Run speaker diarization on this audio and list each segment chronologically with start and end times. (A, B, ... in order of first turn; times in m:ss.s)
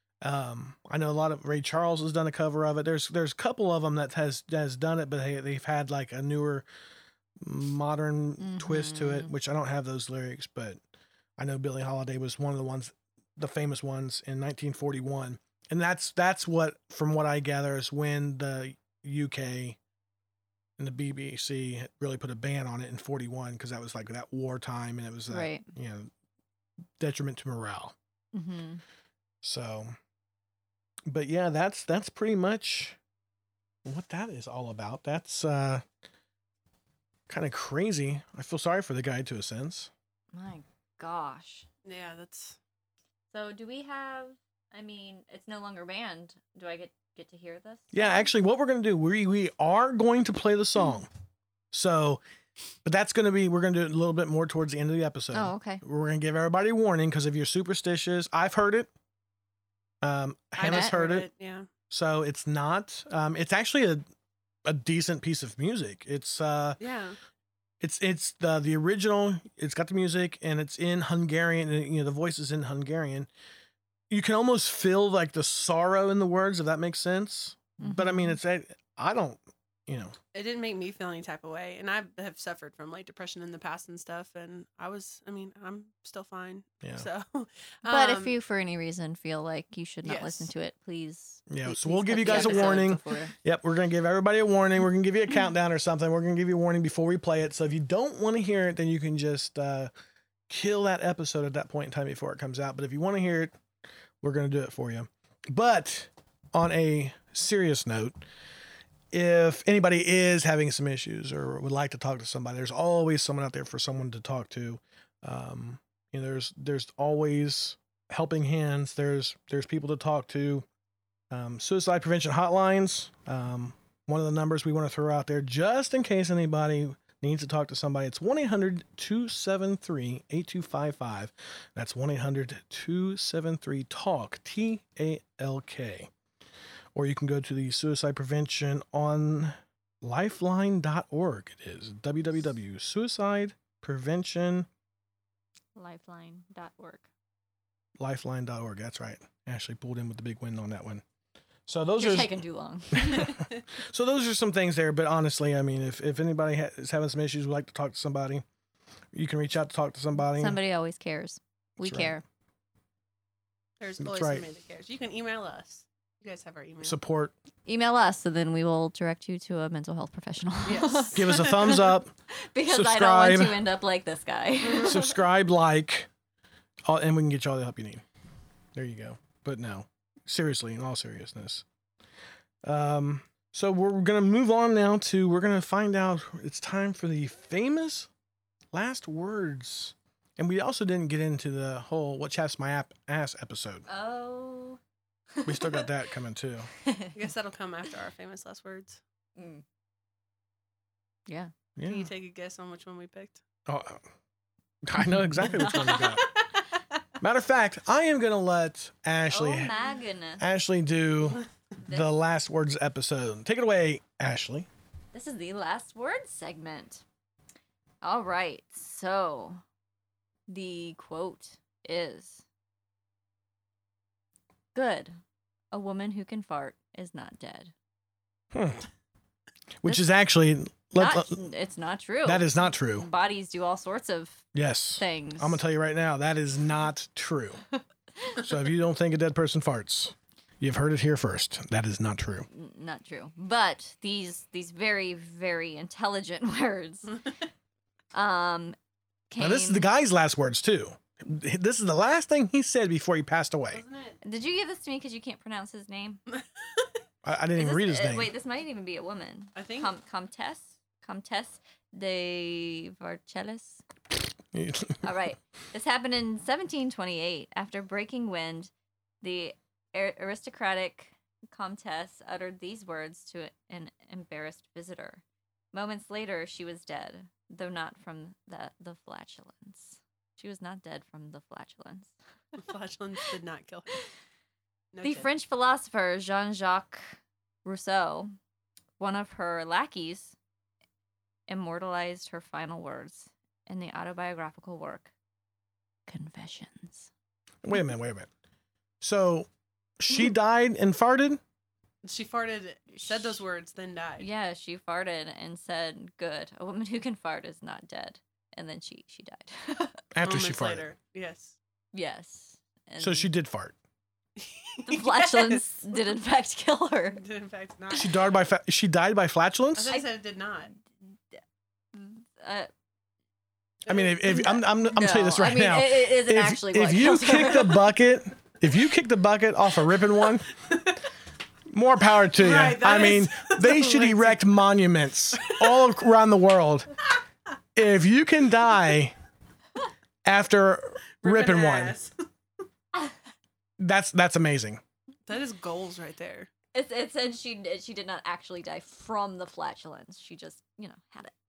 0:00.2-0:06.7 A
0:07.4-0:10.8 A
0:08.4-0:09.3 B
0:11.4-0:19.8 A
0:20.8-0:26.1 A
0:25.3-0:25.7 B
0:27.0-0:28.0 A
0:28.3-0:28.8 B
0:29.4-0:29.9 A
0:31.1-0:33.0 A
0:33.8-0:35.8 A
0:37.3-0:39.9 A
0:40.3-0:41.7 B
0:41.8-0:42.6 C
0:43.3-0:48.3 B
0:47.9-0:51.1 A
0:51.7-0:52.2 A
0:52.8-0:58.9 A
0:55.3-0:55.8 B
1:00.0-1:01.3 A
1:00.6-1:01.7 C
1:00.6-1:01.0 B
1:01.9-1:04.0 A
1:04.6-1:06.8 A
1:06.8-1:07.2 C
1:07.8-1:13.3 A
1:14.1-1:20.2 A
1:17.8-1:18.4 B
1:20.3-1:28.4 C
1:27.8-1:33.4 B
1:30.0-1:30.5 C
1:31.5-1:39.9 A
1:32.2-1:32.9 C
1:40.5-1:43.6 A
1:44.2-1:48.2 A
1:49.1-2:00.7 A
2:01.3-2:16.1 A
2:17.0-2:24.7 A
2:25.8-2:27.1 B
2:28.0-2:31.0 A
2:31.7-2:32.4 A
2:32.0-2:33.4 B
2:32.9-2:38.4 A
2:39.1-2:40.6 A
2:40.2-2:42.2 B
2:41.8-2:42.2 A
2:43.8-2:47.0 C
2:44.0-2:44.4 A
2:46.8-2:47.3 A
2:47.7-2:55.2 B
2:50.6-2:51.9 C
2:51.1-2:52.1 A
2:52.7-2:53.6 A
2:54.8-2:56.1 A
2:56.9-2:58.0 A
2:58.7-3:01.6 A
3:02.6-3:08.1 A
3:08.7-3:13.9 A
3:13.9-3:14.8 B
3:15.4-3:15.9 B
3:15.4-3:16.7 A
3:16.8-3:17.2 B
3:17.1-3:19.0 C
3:19.4-3:19.6 B
3:21.3-3:21.5 B
3:21.8-3:22.1 A
3:21.9-3:23.4 C
3:23.7-3:24.0 A
3:24.8-3:26.3 A
3:25.5-3:26.2 B
3:25.9-3:26.4 C
3:27.2-3:29.7 A
3:29.3-3:30.4 B
3:30.4-3:34.7 A
3:35.1-3:37.0 B
3:38.0-3:39.6 B
3:40.5-3:42.4 B
3:44.7-3:45.2 B
3:45.7-3:47.7 B
3:48.5-3:48.9 A
3:49.8-3:51.4 A
3:51.0-3:54.5 B
3:52.2-3:53.1 A
3:54.5-3:57.6 A
3:55.0-3:55.6 B
3:58.4-4:02.5 A
4:02.5-4:07.2 B
4:08.1-4:08.8 B
4:09.3-4:09.9 B
4:09.4-4:13.8 A
4:13.7-4:14.2 C
4:14.2-4:16.2 B
4:16.3-4:16.8 C
4:17.2-4:18.3 A
4:17.6-4:23.8 B
4:19.6-4:19.9 C
4:24.5-4:25.0 A
4:25.0-4:42.1 B
4:42.6-4:44.0 C
4:44.9-4:45.3 C
4:45.0-4:48.3 B
4:49.0-4:50.4 B
4:51.5-4:55.1 B
4:56.1-4:57.1 B
4:57.6-4:58.3 A
4:59.0-4:59.5 A
5:00.0-5:01.4 A
5:02.0-5:04.3 C
5:02.9-5:03.4 B
5:04.2-5:10.0 B
5:10.1-5:10.9 A
5:10.2-5:11.6 C
5:11.9-5:13.3 B
5:13.0-5:13.8 A
5:14.4-5:15.7 C
5:14.9-5:17.2 B
5:17.1-5:18.2 C
5:17.9-5:19.9 A
5:19.8-5:20.7 C
5:21.9-5:22.7 B
5:23.8-5:30.5 A
5:23.9-5:24.2 C
5:24.2-5:27.9 B
5:31.7-5:36.9 A
5:32.4-5:34.4 C
5:35.5-5:35.7 C
5:37.8-5:39.2 A
5:40.2-5:42.0 A
5:41.2-5:42.1 C
5:43.8-5:44.8 A
5:45.3-5:46.5 C
5:46.7-5:51.4 B